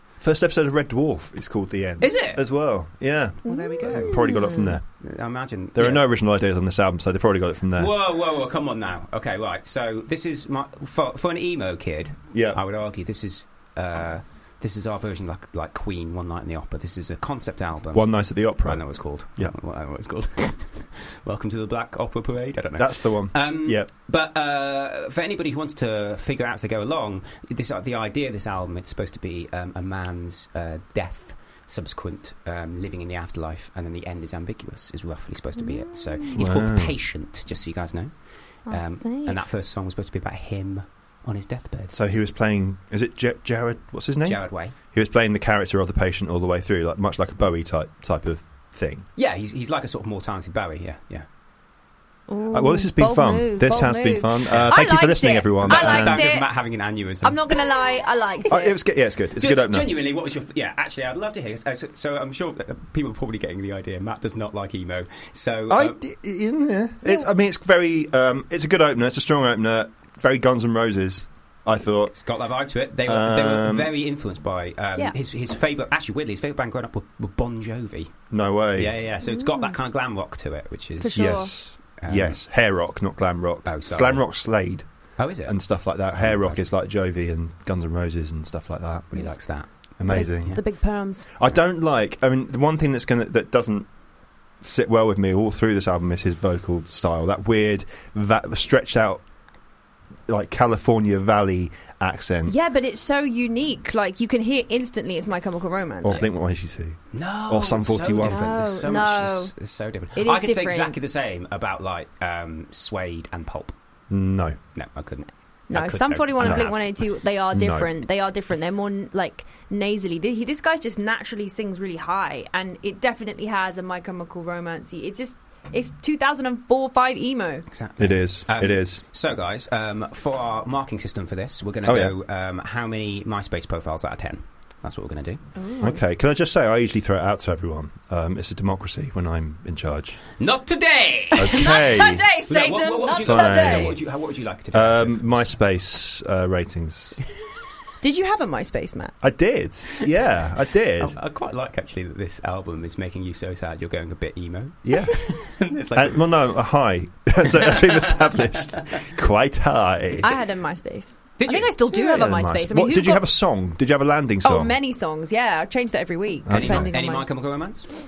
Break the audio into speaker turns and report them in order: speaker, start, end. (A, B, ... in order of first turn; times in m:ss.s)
0:00.2-0:04.8 A
0:02.0-0:02.4 B
0:03.4-0:04.2 B
0:03.5-0:04.8 C
0:05.0-0:06.1 B
0:05.7-0:07.9 A
0:07.8-0:41.9 B
0:12.3-0:12.6 A
0:17.9-0:19.5 A
0:22.8-0:23.9 A
0:35.7-0:36.2 C
0:36.4-0:36.9 A
0:38.6-0:39.4 C
0:41.9-0:49.0 A
0:44.2-0:44.8 B
0:49.2-0:51.3 B
0:52.3-0:58.8 C
0:52.5-0:56.3 A
0:54.5-0:54.8 B
0:55.6-0:57.6 B
0:58.5-0:59.9 A
0:59.4-1:06.0 B
1:05.7-1:12.1 A
1:12.1-1:18.2 B
1:13.0-1:13.9 A
1:18.3-1:19.0 A
1:18.7-1:22.4 B
1:19.2-1:19.7 C
1:21.0-1:21.5 C
1:21.1-1:29.2 A
1:23.6-1:24.2 B
1:25.2-1:26.6 B
1:29.1-1:30.6 B
1:30.0-1:30.6 A
1:30.0-1:31.3 C
1:31.4-1:33.9 A
1:34.6-1:39.2 A
1:40.3-1:42.6 A
1:42.4-1:46.2 C
1:46.0-1:48.6 A
1:47.1-1:53.7 B
1:48.2-1:49.5 C
1:50.2-1:51.0 C
1:54.1-1:54.6 A
1:54.7-1:57.0 B
1:55.7-2:07.7 C
1:56.4-1:56.7 A
1:57.5-1:57.9 A
2:07.7-2:15.4 B
2:08.0-2:09.0 A
2:11.8-2:12.1 A
2:15.6-2:16.0 C
2:15.8-2:20.2 A
2:20.4-2:21.7 B
2:21.4-2:22.2 A
2:21.4-2:24.0 C
2:22.5-2:25.6 B
2:23.2-2:24.0 A
2:24.7-2:27.2 A
2:28.0-2:29.1 C
2:29.2-2:31.1 A
2:31.0-2:36.3 B
2:34.8-2:35.2 A
2:35.9-2:40.3 A
2:37.4-2:39.0 B
2:40.2-2:43.3 C
2:41.4-2:41.7 B
2:41.9-2:44.8 A
2:44.4-2:47.3 C
2:46.5-2:46.9 A
2:46.5-2:47.9 B